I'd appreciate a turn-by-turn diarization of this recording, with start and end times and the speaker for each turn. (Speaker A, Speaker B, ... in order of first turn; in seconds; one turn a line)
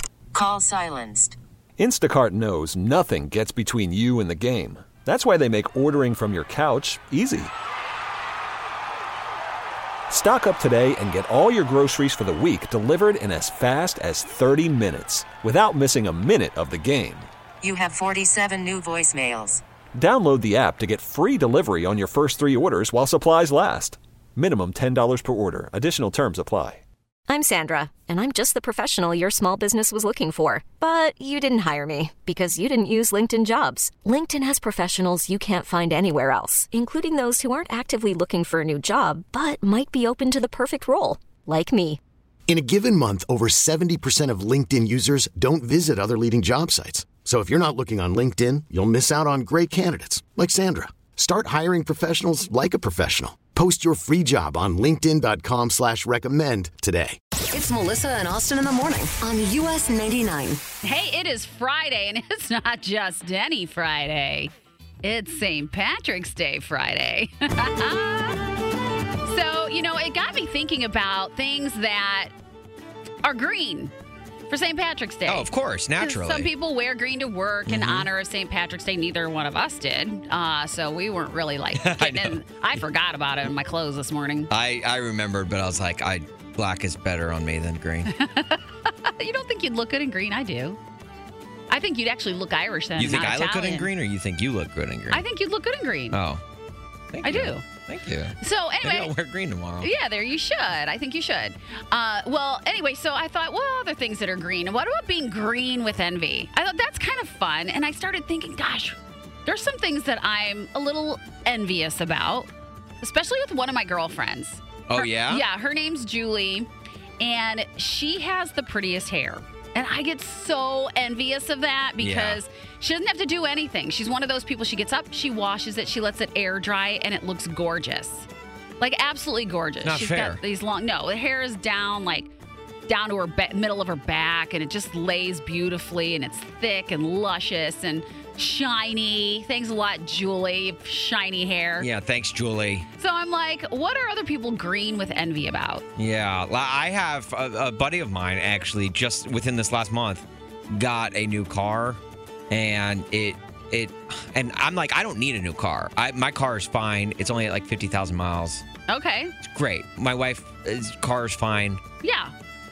Speaker A: 0.3-1.4
Speaker B: 1.8-7.5
Speaker B: 10.1-17.3
Speaker A: 17.6-19.6
Speaker B: 19.9-26.8
Speaker C: 27.3-42.0
Speaker D: 42.5-57.2
Speaker E: 57.5-60.6
Speaker F: 60.8-64.5
Speaker F: 65.0-68.6
Speaker F: 69.2-72.3
Speaker F: 73.2-73.9
Speaker F: 74.5-75.5
Speaker G: 75.2-76.5
Speaker F: 76.0-84.5
Speaker G: 77.7-78.1
Speaker G: 81.7-82.4
Speaker G: 84.5-88.1
Speaker F: 88.1-90.8
Speaker F: 91.7-93.9
Speaker G: 93.0-95.2
Speaker F: 95.1-96.2
Speaker G: 96.1-96.4
Speaker G: 97.1-99.9
Speaker F: 97.2-97.6
Speaker F: 98.4-99.1
Speaker F: 99.8-112.5
Speaker F: 113.0-116.7
Speaker G: 114.9-115.4
Speaker F: 117.2-128.3
Speaker G: 122.0-122.4
Speaker F: 128.8-132.3
Speaker G: 129.8-130.4
Speaker F: 132.9-141.9
Speaker G: 141.8-142.9
Speaker F: 143.0-145.8
Speaker G: 145.9-158.6
Speaker F: 158.9-159.3
Speaker G: 159.4-161.8
Speaker F: 162.0-162.3